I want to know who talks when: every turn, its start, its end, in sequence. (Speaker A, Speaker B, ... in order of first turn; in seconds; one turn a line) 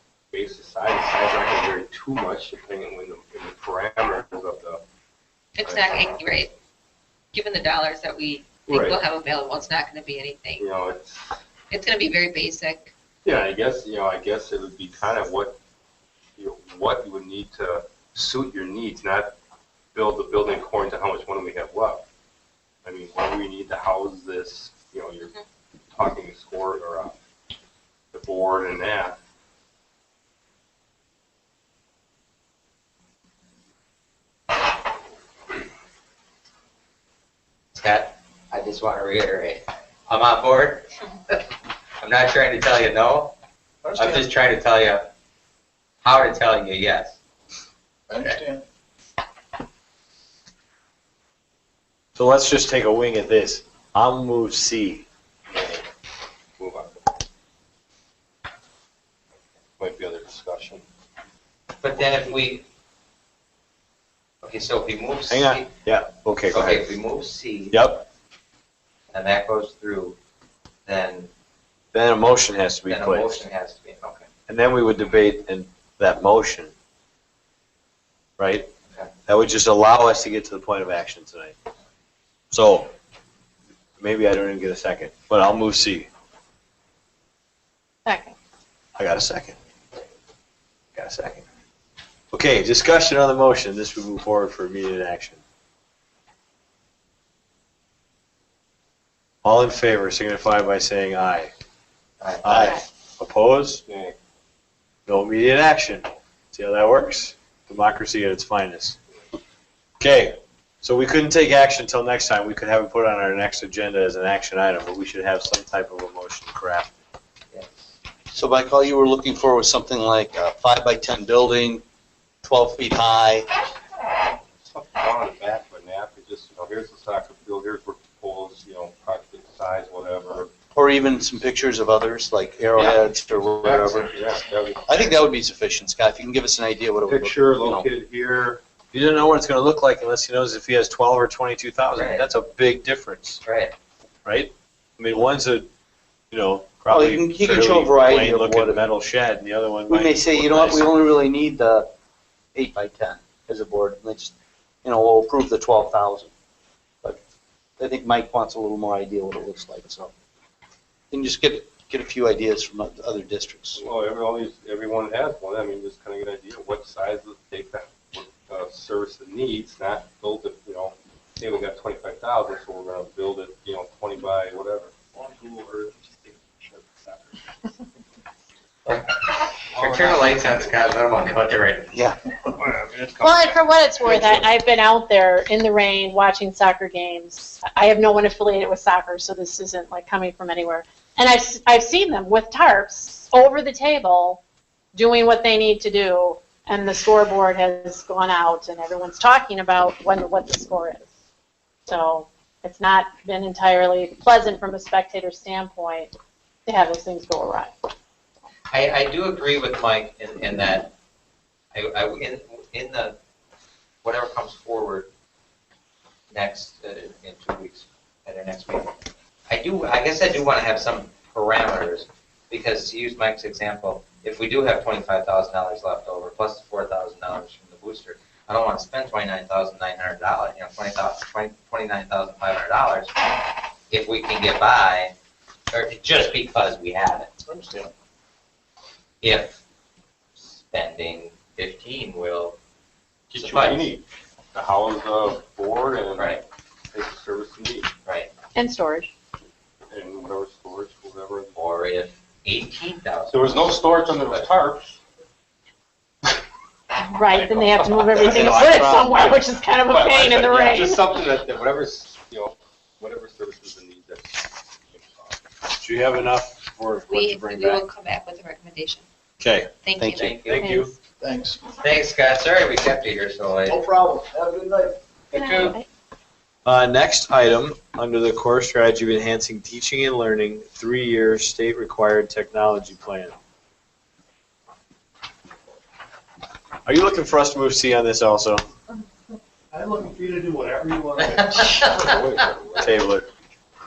Speaker A: 0.3-4.8
Speaker B: 5.6-6.5
Speaker A: 5.6-6.1
Speaker B: 7.3-10.7
Speaker A: 8.7-9.0
Speaker A: 10.6-11.3
Speaker B: 11.7-12.9
Speaker A: 13.2-15.6
Speaker A: 16.4-19.4
Speaker A: 19.9-22.1
Speaker A: 22.8-25.3
Speaker A: 25.9-27.2
Speaker A: 28.1-29.2
Speaker C: 37.7-41.4
Speaker C: 42.0-43.3
Speaker D: 43.8-44.3
Speaker C: 43.9-45.1
Speaker C: 46.0-47.1
Speaker D: 48.1-48.6
Speaker E: 52.1-55.0
Speaker A: 55.5-55.9
Speaker A: 56.6-57.1
Speaker A: 59.8-60.9
Speaker C: 61.8-62.6
Speaker C: 64.4-65.7
Speaker E: 65.3-66.9
Speaker C: 66.5-67.8
Speaker E: 67.7-68.0
Speaker C: 69.1-70.2
Speaker C: 70.8-71.3
Speaker E: 71.9-73.4
Speaker C: 72.9-74.3
Speaker E: 74.5-76.7
Speaker E: 78.4-78.7
Speaker E: 79.3-81.5
Speaker E: 82.5-82.9
Speaker E: 84.0-86.1
Speaker F: 88.0-88.3
Speaker E: 89.0-89.6
Speaker E: 90.9-91.4
Speaker E: 92.3-95.4
Speaker E: 99.4-101.5
Speaker C: 102.2-102.5
Speaker E: 102.4-103.8
Speaker A: 103.9-104.2
Speaker E: 105.1-109.0
Speaker E: 110.0-116.9
Speaker C: 117.5-117.9
Speaker G: 118.3-121.8
Speaker G: 122.4-123.5
Speaker A: 124.6-130.5
Speaker G: 130.7-134.1
Speaker A: 132.8-135.2
Speaker G: 134.9-137.9
Speaker A: 137.1-138.6
Speaker E: 138.9-143.4
Speaker C: 141.9-142.3
Speaker C: 143.4-143.7
Speaker E: 144.2-145.7
Speaker E: 146.3-150.9
Speaker G: 146.9-148.8
Speaker G: 149.9-151.9
Speaker G: 152.5-156.3
Speaker G: 157.8-160.1
Speaker G: 161.1-163.8
Speaker A: 163.8-174.9
Speaker D: 175.1-177.2
Speaker C: 178.8-182.1
Speaker D: 179.8-180.2
Speaker A: 182.5-184.5
Speaker F: 183.2-194.4
Speaker F: 194.9-201.1
Speaker F: 201.8-206.1
Speaker F: 206.7-207.7
Speaker C: 208.7-210.9
Speaker C: 211.7-213.2
Speaker C: 214.0-215.1
Speaker C: 216.3-218.9
Speaker C: 219.5-233.1
Speaker C: 233.9-235.1
Speaker C: 235.7-237.3
Speaker D: 237.5-237.9
Speaker C: 239.2-239.6
Speaker C: 240.4-242.6
Speaker C: 243.3-243.9
Speaker A: 243.3-246.4
Speaker C: 246.1-246.4
Speaker A: 246.9-247.9
Speaker F: 248.5-249.1
Speaker A: 249.9-251.6
Speaker C: 251.6-254.4
Speaker A: 253.3-255.0
Speaker F: 257.0-261.0
Speaker E: 258.2-259.3
Speaker A: 259.9-265.4
Speaker E: 265.8-267.9
Speaker B: 267.1-269.1
Speaker E: 269.4-269.7
Speaker B: 269.8-270.4
Speaker G: 270.0-270.3
Speaker C: 270.2-270.7
Speaker E: 270.3-270.9
Speaker F: 270.6-270.9
Speaker D: 271.2-271.6
Speaker C: 271.8-273.8
Speaker G: 273.7-274.9
Speaker C: 275.3-275.7
Speaker F: 275.3-275.8
Speaker E: 276.6-283.3
Speaker E: 286.9-288.6
Speaker D: 289.7-291.8
Speaker C: 291.2-291.9
Speaker A: 291.9-292.9
Speaker E: 292.8-293.3